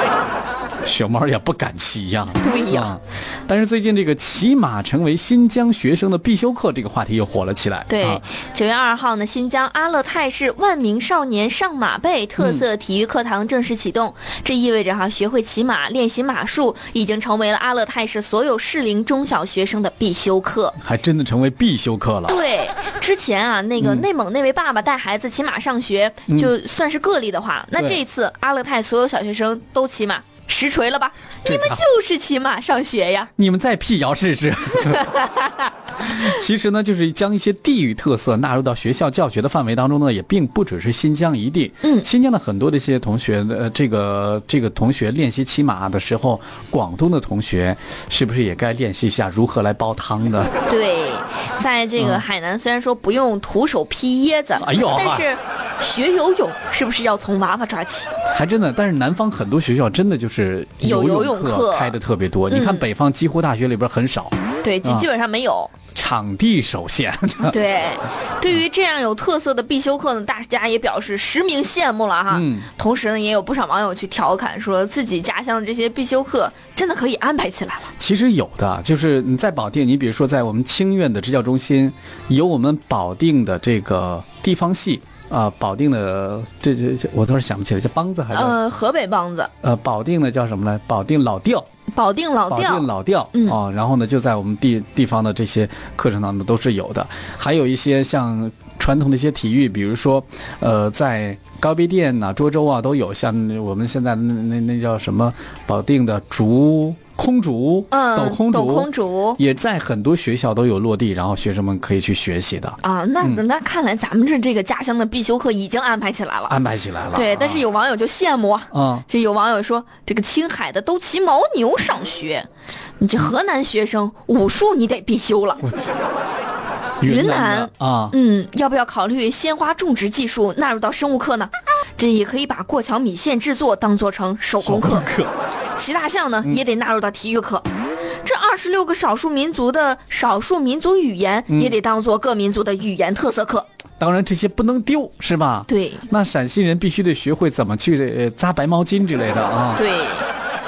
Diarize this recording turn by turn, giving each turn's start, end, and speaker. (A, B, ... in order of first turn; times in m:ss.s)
0:00.8-0:08.2 A
0:02.4-0:02.9 B
0:07.9-0:20.8 B
0:12.4-0:12.6 A
0:20.8-0:22.4 A
0:22.3-0:33.3 B
0:23.8-0:24.1 A
0:31.4-0:31.8 A
0:33.4-0:35.2 A
0:34.8-0:35.7 B
0:36.0-0:50.5 A
0:50.7-0:58.1 B
0:52.0-0:52.2 A
0:54.6-0:55.3 A
0:58.3-1:05.1 A
1:00.8-1:02.0 B
1:02.5-1:02.9 B
1:04.6-1:05.7 B
1:05.9-1:07.6 A
1:07.4-1:17.9 B
1:12.3-1:12.7 A
1:18.0-1:28.6 A
1:28.3-1:29.5 B
1:29.6-1:31.7 A
1:31.9-1:33.6 B
1:32.5-1:53.4 A
1:47.9-1:49.4 B
1:52.8-1:56.6 B
1:56.5-1:57.6 A
1:57.1-2:02.5 B
1:58.7-1:59.0 A
2:03.0-2:05.6 B
2:07.0-2:08.2 A
2:07.0-2:15.1 B
2:14.6-2:15.3 A
2:15.8-2:17.7 B
2:18.2-2:23.7 B
2:21.5-2:21.8 A
2:24.0-2:29.8 A
2:25.7-2:26.0 B
2:29.8-2:30.3 B